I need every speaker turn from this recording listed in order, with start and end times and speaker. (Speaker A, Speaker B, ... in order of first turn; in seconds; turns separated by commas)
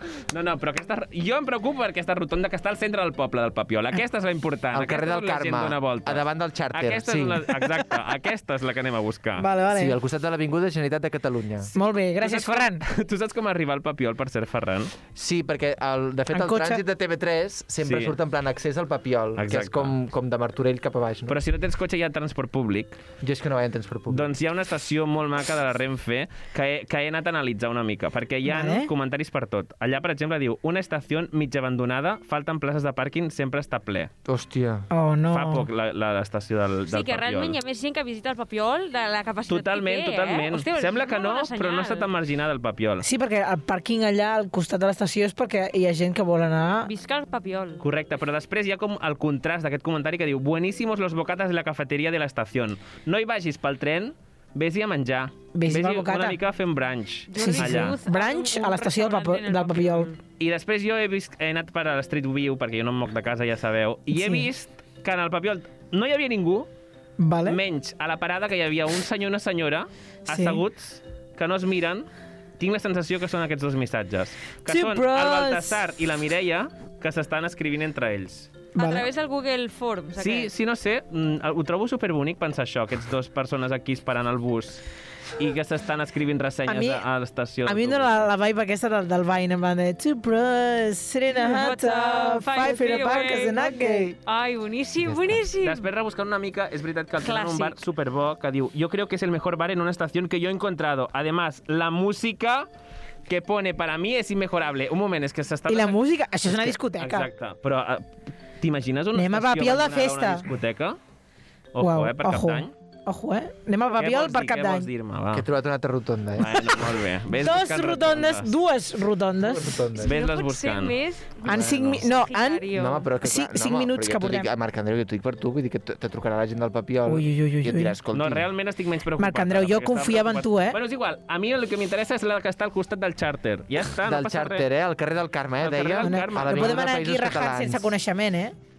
Speaker A: 0.3-9.5, Speaker B: 4.7-7.5, Speaker C: 9.4-9.9, Speaker B: 9.7-11.7, Speaker C: 11.7-12.8, Speaker A: 12.2-14.9, Speaker B: 15.1-21.4, Speaker C: 16.3-16.8, Speaker A: 17.8-18.1, Speaker A: 19.4-19.9, Speaker A: 21.3-23.0, Speaker B: 23.2-24.3, Speaker A: 24.1-34.1, Speaker C: 28.4-28.9, Speaker B: 34.2-34.9, Speaker C: 34.9-35.7, Speaker A: 35.3-37.5, Speaker D: 36.9-42.1, Speaker A: 39.5-43.1, Speaker C: 43.0-46.9, Speaker D: 46.8-47.8, Speaker A: 47.8-58.0, Speaker C: 55.5-56.4, Speaker D: 57.3-60.2, Speaker C: 57.3-60.1, Speaker A: 60.4-66.7, Speaker C: 64.1-64.5, Speaker C: 67.2-67.6, Speaker A: 67.5-72.1, Speaker C: 70.3-70.6, Speaker A: 72.6-78.5, Speaker C: 74.7-75.8, Speaker C: 78.8-79.0, Speaker D: 78.8-80.5, Speaker A: 80.2-84.8, Speaker A: 85.4-88.3, Speaker C: 86.7-87.0, Speaker C: 87.6-94.1, Speaker D: 91.3-95.9, Speaker B: 95.0-95.4, Speaker A: 95.6-102.7, Speaker D: 97.2-97.8, Speaker A: 103.3-108.0, Speaker C: 105.7-107.3, Speaker A: 108.6-111.0, Speaker C: 109.1-110.4, Speaker A: 111.7-112.7, Speaker C: 111.8-114.9, Speaker A: 114.0-115.5, Speaker B: 115.3-116.8, Speaker A: 116.4-118.5, Speaker C: 117.3-119.7, Speaker B: 119.4-120.1, Speaker A: 120.0-121.0, Speaker D: 120.0-123.1, Speaker C: 121.4-122.7, Speaker B: 121.5-122.1, Speaker B: 122.7-128.5, Speaker C: 123.2-124.5, Speaker C: 127.0-127.9, Speaker A: 128.1-134.7, Speaker C: 129.2-130.8, Speaker B: 134.0-137.9, Speaker A: 135.6-136.8, Speaker C: 136.0-138.5